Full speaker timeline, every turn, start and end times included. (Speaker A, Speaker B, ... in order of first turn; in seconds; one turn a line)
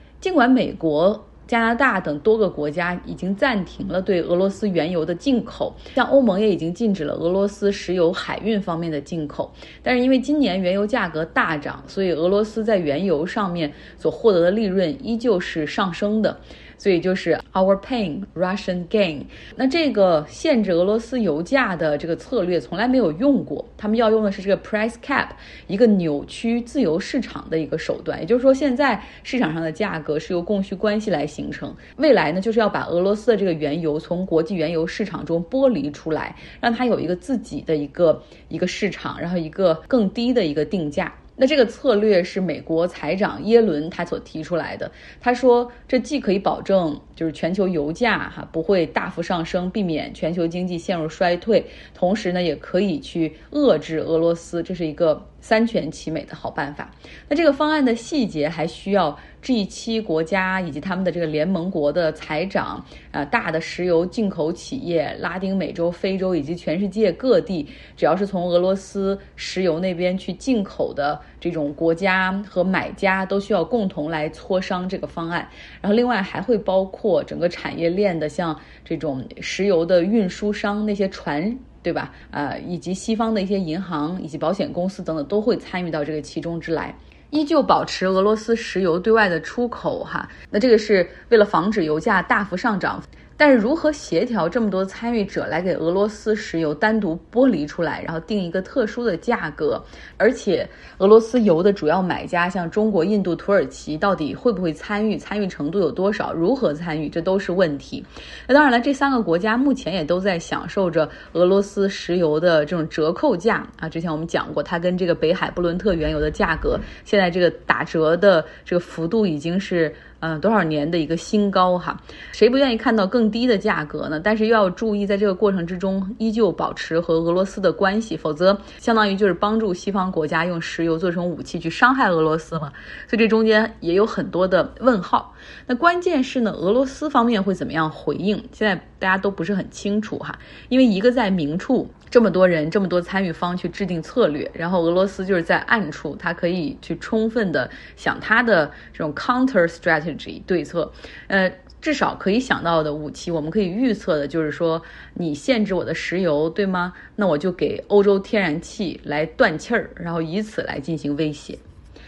Speaker A: 0.2-161.6